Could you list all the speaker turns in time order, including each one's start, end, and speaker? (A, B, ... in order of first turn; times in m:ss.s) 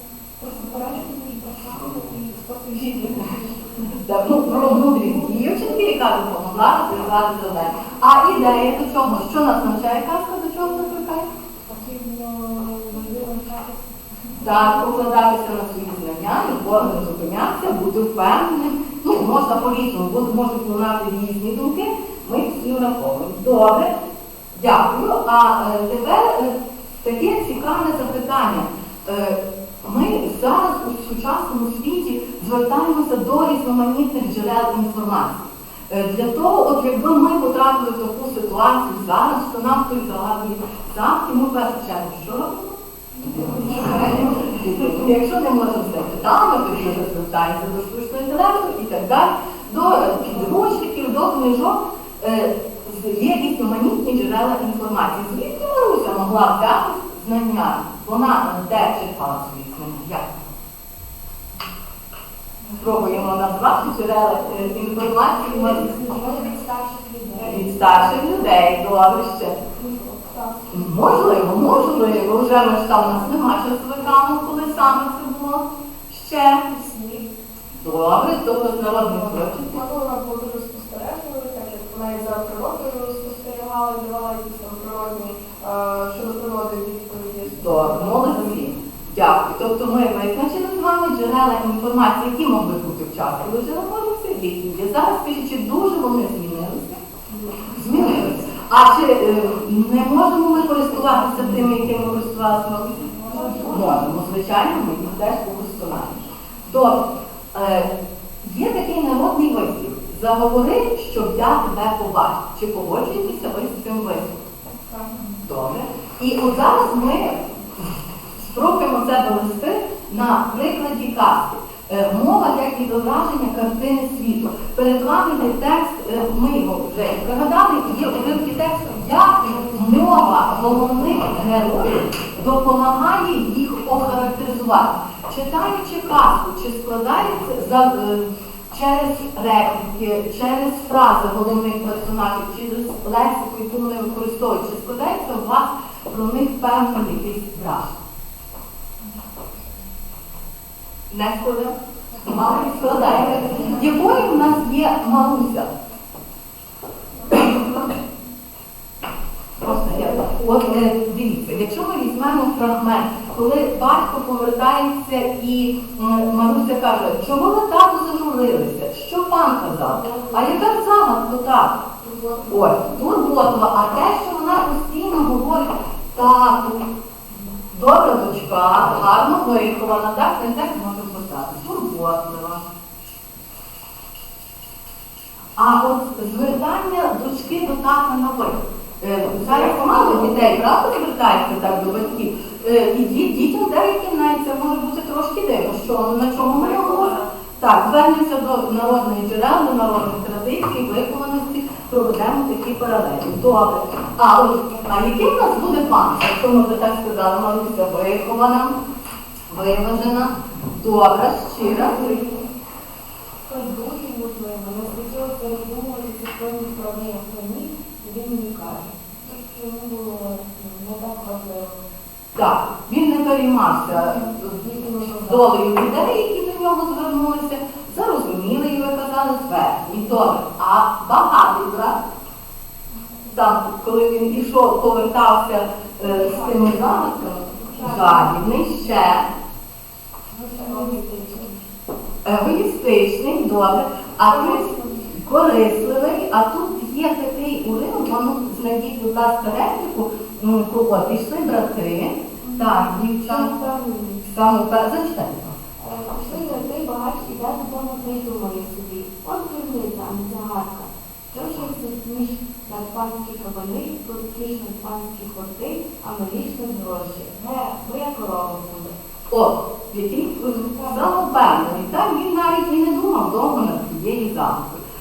0:00.4-0:06.0 A
0:03.9-0:11.3 B
0:11.7-0:13.7 C
0:14.4-0:14.7 A
0:14.4-0:24.0 B
0:24.6-0:42.8 B
0:43.3-0:44.8 A
0:43.3-1:00.4 B
1:02.7-1:06.1 B
1:05.5-1:08.0 C
1:07.4-1:08.7 A
1:07.5-1:09.7 B
1:09.7-1:12.5 A
1:10.7-1:16.7 B
1:16.7-1:17.3 A
1:17.8-1:19.8 B
1:18.7-1:28.7 A
1:27.6-1:37.0 B
1:37.7-1:43.0 B
1:37.8-1:38.3 A
1:43.2-1:43.9 C
1:43.3-1:44.2 A
1:43.7-1:47.0 B
1:47.5-1:54.5 B
1:54.7-1:55.4 A
1:55.4-1:57.5 B
1:58.4-2:28.0 B
2:10.1-2:10.5 A
2:31.1-2:35.7 B
2:33.3-2:33.8 C
2:33.3-2:33.9 A
2:39.6-2:51.8 B
2:39.6-2:40.6 C
2:49.6-2:50.8 C
2:52.0-2:53.0 C
2:52.5-2:56.8 B
2:57.7-3:02.7 B
3:05.6-3:28.8 B
3:09.4-3:10.2 A
3:16.4-3:17.3 A
3:29.5-3:32.2 B
3:31.6-3:32.0 A
3:31.7-3:32.4 C
3:33.5-3:41.8 C
3:42.4-3:52.0 B
3:43.9-3:45.7 C
3:53.3-3:59.3 B
3:56.0-3:56.6 A
3:56.0-3:58.3 C
3:57.4-3:58.1 A
4:00.3-4:01.6 C
4:00.5-4:01.0 A
4:02.2-4:13.6 B
4:04.3-4:05.1 A
4:12.5-4:14.2 C
4:14.2-4:15.6 B
4:15.8-4:28.9 C
4:29.3-4:34.8 B
4:30.5-4:31.7 C